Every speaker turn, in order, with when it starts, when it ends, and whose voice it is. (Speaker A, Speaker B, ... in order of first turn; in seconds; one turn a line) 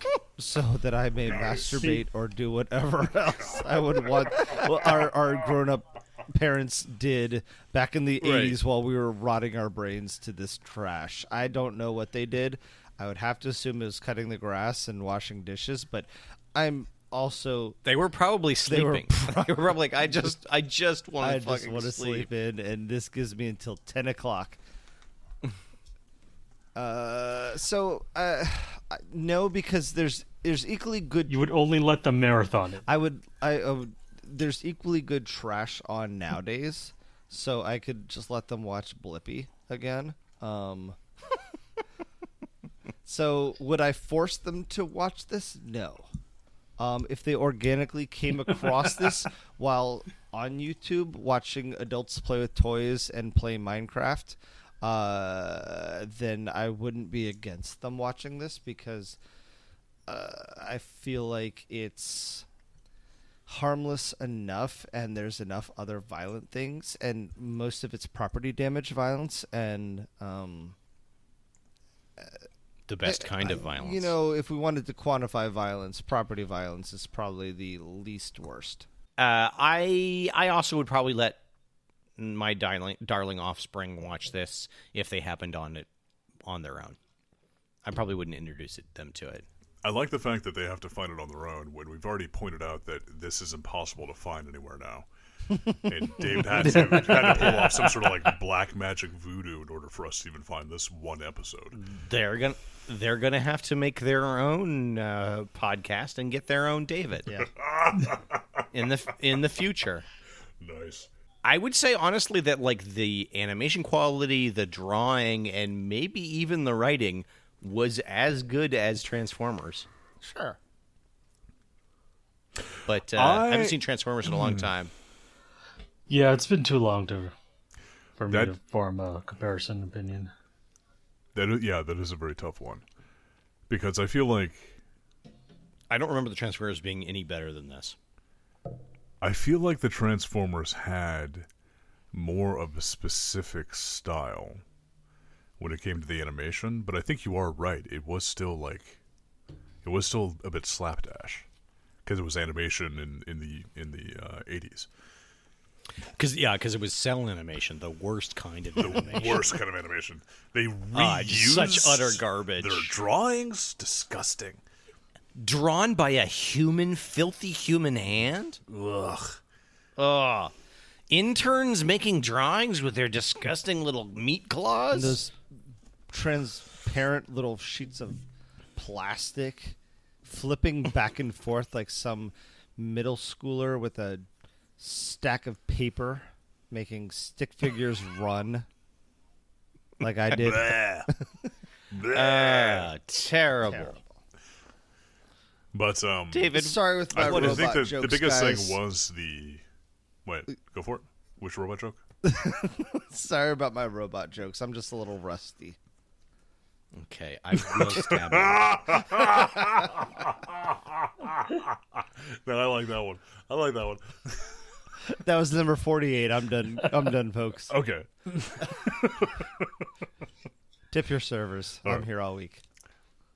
Speaker A: 0.4-17.8
Speaker B: 8.2-8.6
Speaker B: 17.9-22.3
Speaker A: 18.6-20.4
Speaker A: 21.2-24.6
Speaker A: 26.8-31.4
Speaker C: 31.3-32.9
Speaker A: 32.9-41.0
Speaker A: 43.0-46.1
Speaker A: 46.8-59.2
Speaker A: 60.1-62.5
Speaker A: 63.5-70.8
Speaker B: 72.9-74.1
Speaker A: 73.0-78.9
Speaker B: 79.2-81.4
Speaker B: 82.2-85.9
Speaker B: 86.4-87.0
Speaker B: 87.8-89.5
Speaker D: 89.8-95.1
Speaker D: 95.7-101.8
Speaker B: 96.7-97.8
Speaker B: 101.7-107.4
Speaker D: 107.5-108.7
Speaker B: 108.7-110.1
Speaker D: 110.6-111.1
Speaker B: 111.4-119.9
Speaker A: 120.2-120.6
Speaker B: 122.9-124.9
Speaker D: 123.1-124.7
Speaker C: 126.1-127.3
Speaker C: 128.2-130.3
Speaker D: 131.3-132.8
Speaker D: 133.7-134.8
Speaker B: 135.9-138.0
Speaker D: 139.2-141.5
Speaker D: 142.1-144.6
Speaker D: 145.6-149.0
Speaker D: 149.8-151.5
Speaker D: 152.1-154.9
Speaker B: 156.2-159.6
Speaker D: 158.8-164.6
Speaker B: 160.9-162.9
Speaker B: 165.4-168.6
Speaker D: 168.7-169.4
Speaker B: 170.0-170.5
Speaker B: 171.1-175.2
Speaker A: 174.9-175.3
Speaker A: 176.1-178.2
Speaker A: 178.8-184.3
Speaker A: 184.8-188.7
Speaker A: 190.0-190.9
Speaker D: 190.3-191.1
Speaker D: 191.9-192.9
Speaker B: 192.1-194.0
Speaker A: 193.7-194.1
Speaker D: 195.7-199.6
Speaker B: 196.3-197.7
Speaker A: 196.5-198.8
Speaker D: 200.2-202.0
Speaker A: 202.2-205.8
Speaker B: 206.9-209.0
Speaker D: 207.6-214.6
Speaker A: 215.2-217.7
Speaker D: 217.7-219.7
Speaker A: 220.9-222.6